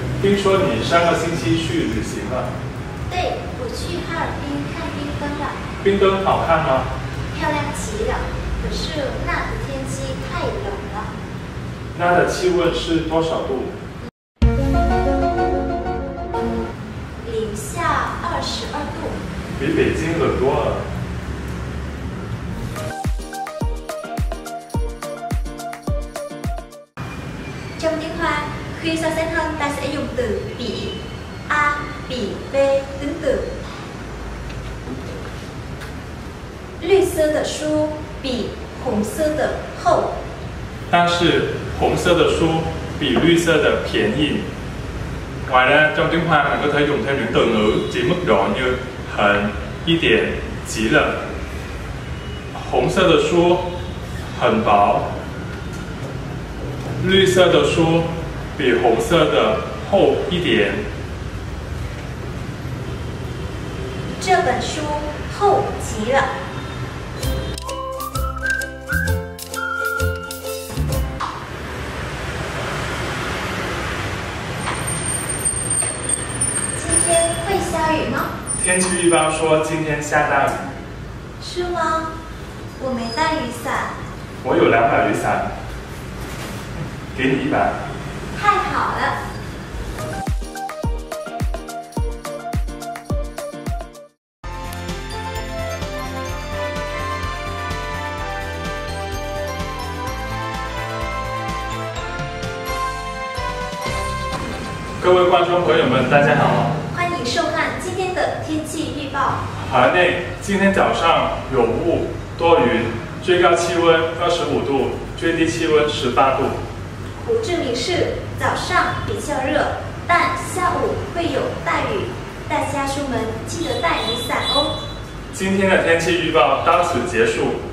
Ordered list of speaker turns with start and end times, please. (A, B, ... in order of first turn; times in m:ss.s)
0:00.2-0:02.5 A
0:03.1-0:05.6 B
0:05.8-0:06.9 A
0:07.3-0:11.1 B
0:11.9-0:13.7 A
0:17.2-0:19.2 B
0:19.6-0:20.8 A
0:27.8-0:31.0 B
0:31.5-0:33.5 B
0:36.8-0:40.1 B
0:40.9-0:44.4 A
0:45.4-0:51.2 A
0:52.5-0:53.7 A
0:54.3-0:55.1 A
0:57.0-1:00.8 A
1:04.2-1:06.3 B
1:16.8-1:18.3 B
1:18.6-1:20.7 A
1:21.4-1:22.1 B
1:22.8-1:23.9 B
1:24.4-1:25.5 A
1:27.1-1:27.8 A
1:28.3-1:29.2 B
1:45.0-1:46.8 A
1:46.9-1:49.4 B
1:49.5-1:56.6 A
1:57.2-2:04.7 B
2:05.3-2:07.6 A